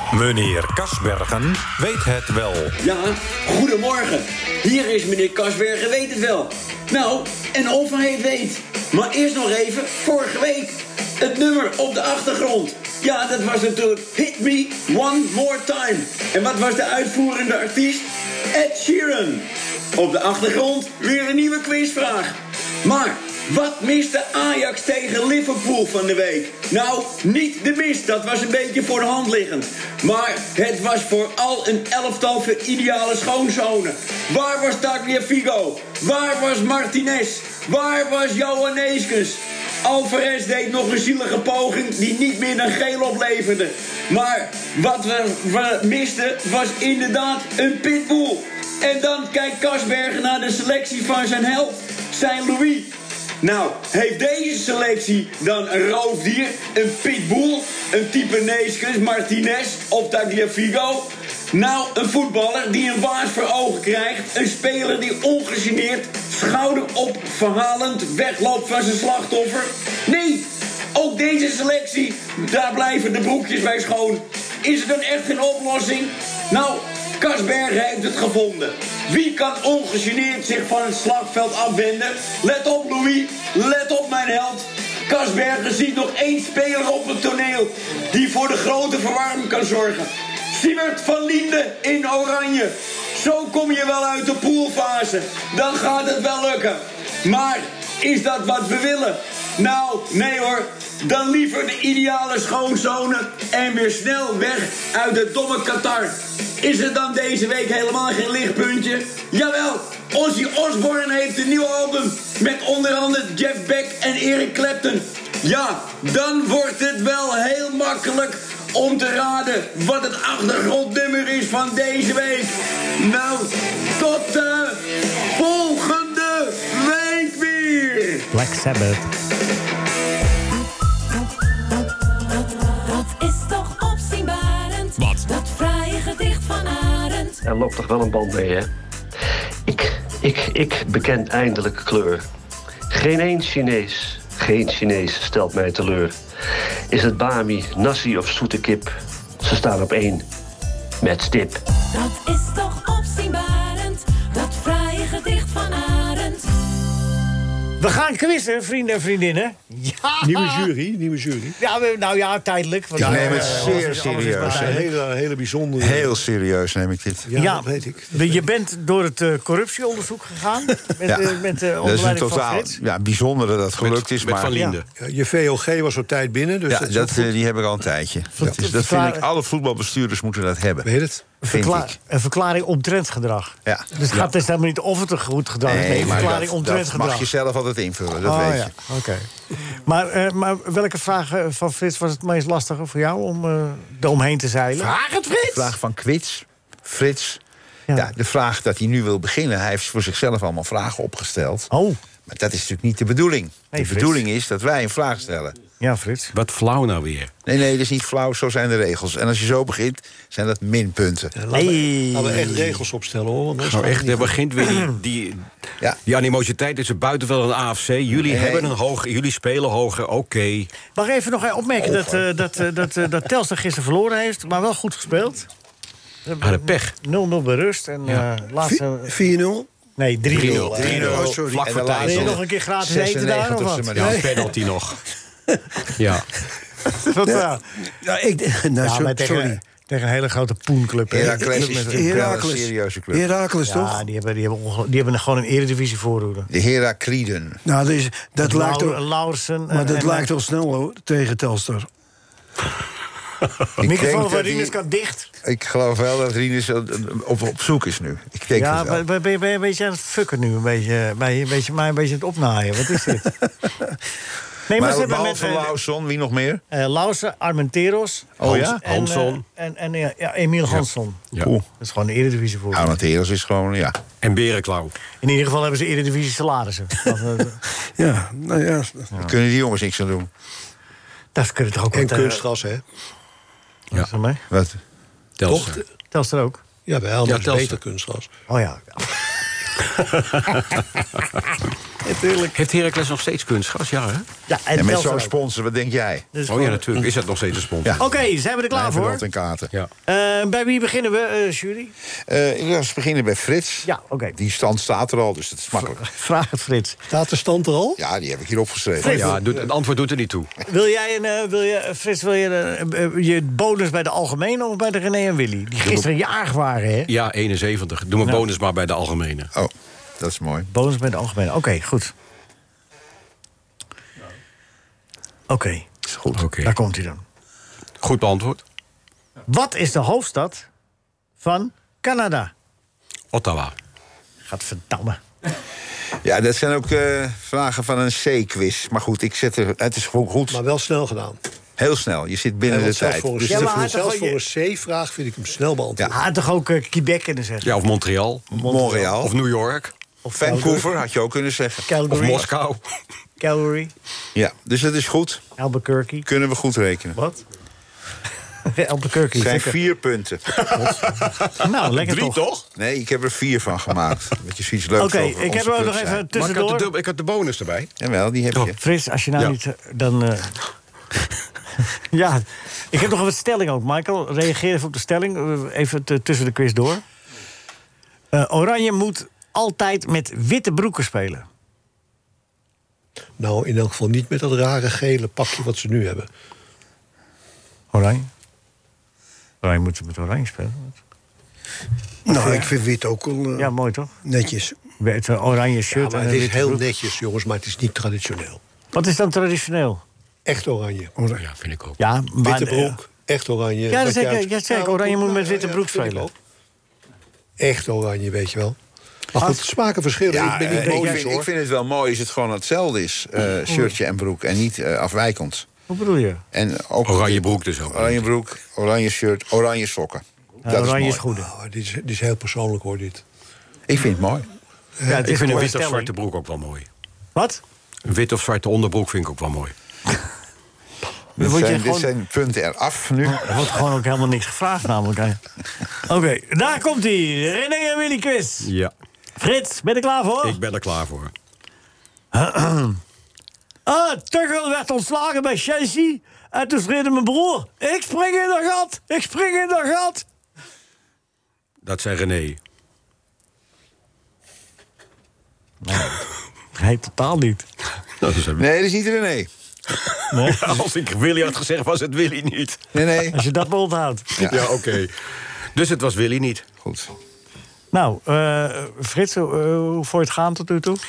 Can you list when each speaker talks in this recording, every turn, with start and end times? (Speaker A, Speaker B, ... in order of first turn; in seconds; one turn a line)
Speaker A: 0.1-2.7
Speaker B: 2.8-128.2
Speaker C: 128.3-129.1
Speaker D: 132.6-137.4
Speaker E: 137.4-138.7
Speaker E: 139.7-142.2
Speaker E: 142.9-146.2
Speaker E: 146.9-150.2
Speaker E: 151.0-151.6
Speaker D: 151.9-156.5
Speaker C: 157.8-160.7
Speaker F: 160.2-161.6
Speaker C: 161.6-164.9
Speaker F: 162.9-166.1
Speaker G: 163.0-164.9
Speaker G: 165.8-167.3
Speaker F: 167.2-168.4
Speaker C: 167.3-172.8
Speaker G: 171.1-174.6
Speaker H: 173.8-174.8
Speaker F: 175.0-177.3
Speaker G: 176.7-180.9
Speaker C: 178.4-179.2
Speaker F: 180.8-181.2
Speaker C: 181.4-187.3
Speaker G: 181.5-181.9
Speaker G: 185.6-188.7
Speaker H: 186.0-186.3
Speaker C: 188.2-195.7
Speaker G: 194.8-197.4
Speaker G: 197.9-201.7
Speaker C: 201.7-202.0
Speaker G: 202.3-205.6
Speaker C: 203.7-204.2
Speaker C: 205.8-206.3
Speaker H: 206.3-207.3
Speaker G: 207.4-211.3
Speaker F: 211.3-214.4
Speaker C: 211.5-212.8
Speaker H: 213.6-215.4
Speaker H: 216.0-220.7
Speaker G: 218.2-218.7
Speaker C: 220.9-225.5
Speaker G: 221.8-222.3
Speaker C: 226.2-229.1
Speaker H: 226.4-226.9
Speaker I: 228.6-229.7
Speaker C: 230.0-231.1
Speaker H: 230.3-232.4
Speaker I: 230.3-232.3
Speaker G: 230.6-234.2
Speaker C: 232.0-234.1
Speaker H: 233.9-235.0
Speaker I: 234.0-234.2
Speaker H: 236.0-236.2
Speaker C: 237.0-237.6
Speaker I: 237.2-239.6
Speaker C: 238.8-242.4
Speaker G: 241.1-243.3
Speaker I: 241.2-244.0
Speaker C: 243.6-246.5
Speaker G: 246.5-247.6
Speaker I: 247.6-249.0
Speaker C: 248.4-250.3
Speaker I: 249.7-251.9
Speaker G: 253.8-254.8
Speaker C: 253.8-255.3
Speaker G: 255.4-259.0
Speaker C: 258.5-263.3
Speaker C: 264.7-265.7
Speaker G: 264.7-266.6
Speaker C: 266.7-271.2
Speaker G: 268.4-268.8
Speaker H: 268.4-269.4
Speaker H: 270.7-271.5
Speaker G: 271.4-271.6
Speaker C: 271.8-273.0
Speaker G: 272.7-274.0
Speaker H: 274.2-274.9
Speaker C: 275.2-277.6
Speaker I: 278.0-279.1
Speaker G: 279.2-280.3
Speaker C: 281.3-282.4
Speaker F: 281.9-282.8
Speaker C: 283.9-284.4
Speaker G: 284.5-284.8
Speaker H: 285.4-285.8
Speaker F: 285.5-285.8
Speaker C: 286.1-286.6
Speaker F: 286.9-288.3
Speaker H: 287.2-287.8
Speaker C: 288.5-289.2
Speaker H: 290.0-290.6
Speaker C: 292.0-292.5
Speaker H: 292.5-294.3
Speaker C: 294.5-295.3
Speaker G: 294.7-296.3
Speaker C: 296.3-296.8
Speaker H: 296.5-298.0
Speaker C: 298.0-299.2
Speaker G: 298.7-299.7
Speaker C: 300.1-301.9
Speaker G: 302.3-306.0
Speaker C: 303.8-304.4
Speaker C: 305.7-307.0
Speaker F: 307.1-308.0
Speaker G: 308.0-309.3
Speaker C: 309.0-309.4
Speaker F: 309.0-309.3
Speaker H: 309.0-310.5
Speaker C: 310.6-317.1
Speaker H: 317.1-319.5
Speaker G: 319.5-320.7
Speaker C: 320.7-322.1
Speaker C: 325.5-325.9
Speaker G: 326.1-326.4
Speaker H: 326.4-326.7
Speaker C: 326.6-327.2
Speaker H: 328.0-328.6
Speaker C: 329.5-330.7
Speaker C: 331.4-332.5
Speaker H: 333.3-333.7
Speaker C: 334.5-335.2
Speaker G: 336.2-340.6
Speaker F: 340.5-341.4
Speaker G: 341.8-343.8
Speaker F: 342.7-346.1
Speaker C: 343.5-344.4
Speaker C: 346.1-347.7
Speaker H: 347.6-348.5
Speaker G: 348.5-349.3
Speaker C: 348.5-349.1
Speaker H: 349.1-349.9
Speaker C: 350.2-350.9
Speaker G: 350.3-352.2
Speaker C: 351.9-352.5
Speaker H: 352.1-352.8
Speaker C: 353.4-353.9
Speaker G: 354.3-355.4
Speaker C: 355.6-356.3
Speaker G: 356.2-357.2
Speaker C: 358.6-359.8
Speaker G: 359.3-360.6
Speaker H: 360.5-362.6
Speaker C: 361.6-362.5
Speaker G: 362.8-366.3
Speaker C: 365.0-366.9
Speaker H: 366.3-367.9
Speaker G: 368.0-368.8
Speaker C: 368.8-370.6
Speaker C: 372.1-377.0
Speaker C: 378.3-381.5
Speaker F: 383.4-386.3
Speaker C: 387.9-388.3
Speaker C: 389.6-391.0
Speaker I: 392.2-393.7
Speaker C: 392.4-392.7
Speaker C: 393.6-394.1
Speaker I: 394.2-394.8
Speaker C: 395.0-396.8
Speaker F: 395.9-398.6
Speaker C: 398.9-400.0
Speaker F: 400.4-401.1
Speaker I: 401.2-401.4
Speaker H: 401.4-402.0
Speaker C: 402.0-403.0
Speaker F: 402.4-406.3
Speaker C: 403.9-406.3
Speaker F: 407.6-408.8
Speaker F: 409.3-411.5
Speaker G: 410.3-415.7
Speaker C: 410.5-411.4
Speaker C: 415.9-416.4
Speaker G: 416.5-421.2
Speaker H: 417.0-418.2
Speaker C: 420.6-421.5
Speaker F: 421.3-423.2
Speaker G: 423.9-424.4
Speaker F: 425.0-425.6
Speaker C: 425.1-426.1
Speaker H: 425.2-426.9
Speaker C: 427.4-427.6
Speaker H: 428.1-429.7
Speaker G: 431.4-433.8
Speaker C: 431.4-432.1
Speaker C: 433.3-435.4
Speaker C: 436.0-438.7
Speaker H: 438.6-438.9
Speaker C: 439.4-440.6
Speaker H: 440.4-441.3
Speaker C: 442.3-443.0
Speaker C: 443.9-450.2
Speaker H: 451.8-452.6
Speaker C: 455.8-456.2
Speaker C: 456.8-457.7
Speaker H: 458.2-458.6
Speaker G: 458.5-459.5
Speaker C: 460.3-460.8
Speaker H: 460.3-462.8
Speaker G: 462.9-463.4
Speaker C: 463.3-464.4
Speaker G: 464.4-464.7
Speaker H: 464.4-465.1
Speaker H: 465.7-466.6
Speaker G: 466.8-467.1
Speaker C: 467.9-471.0